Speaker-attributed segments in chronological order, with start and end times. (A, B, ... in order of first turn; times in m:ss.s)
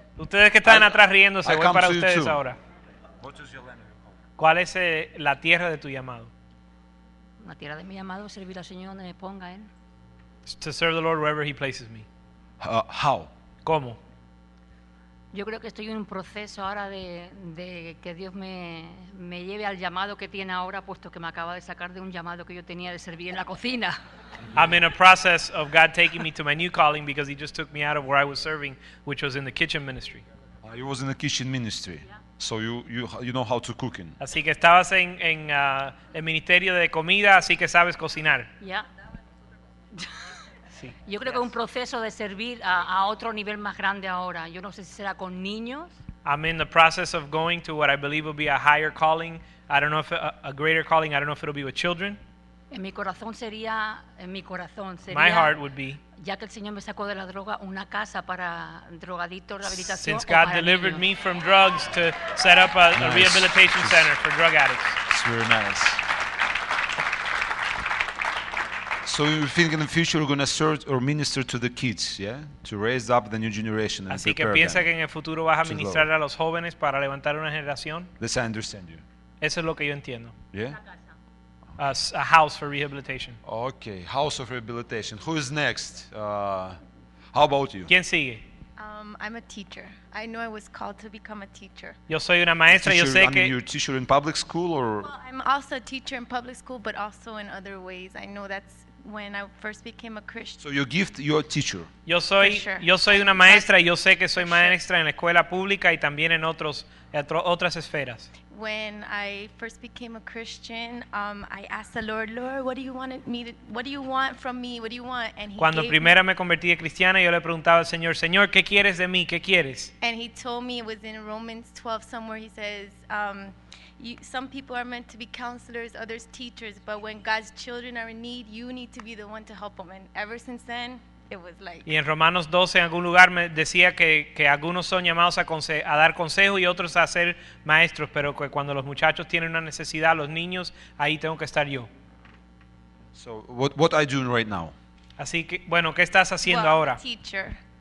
0:00.2-0:02.6 A
0:00.6-0:00.9 B
0:01.4-0:02.4 B
0:03.2-0:03.9 B
0:04.4-0:06.3 A
0:07.4-0:09.7 C
0:10.5-0:12.1 A
0:12.6-0:13.3 B
0:13.6-0:14.0 A
0:15.3-0:24.0 C
0:24.6-0:30.2 A
0:30.6-0:34.2 B
0:34.2-0:38.5 A
0:40.8-0:41.4 A
0:41.1-0:45.9 C
0:46.2-0:52.2 A
0:52.7-0:55.6 C
0:55.1-0:56.0 A
0:56.2-1:01.1 C
0:59.9-1:05.0 A
1:03.0-1:04.1 B
1:05.1-1:06.0 B
1:09.0-1:14.9 B
1:14.1-1:18.1 A
1:15.6-1:16.1 B
1:18.2-1:19.0 B
1:19.4-1:20.4 A
1:20.5-1:20.8 B
1:21.8-1:23.4 A
1:23.4-1:26.8 B
1:27.3-1:27.9 B
1:27.9-1:28.4 A
1:28.8-1:32.0 D
1:32.1-1:33.5 A
1:32.7-1:35.1 B
1:35.0-1:40.6 D
1:40.6-1:41.9 B
1:42.1-1:48.3 A
1:42.4-1:43.7 D
1:44.3-1:44.8 D
1:48.5-1:56.1 D
1:55.6-1:59.9 A
2:00.0-2:11.9 D
2:11.9-2:21.9 A
2:23.1-2:24.7 B
2:25.2-2:27.0 A
2:26.4-2:27.6 D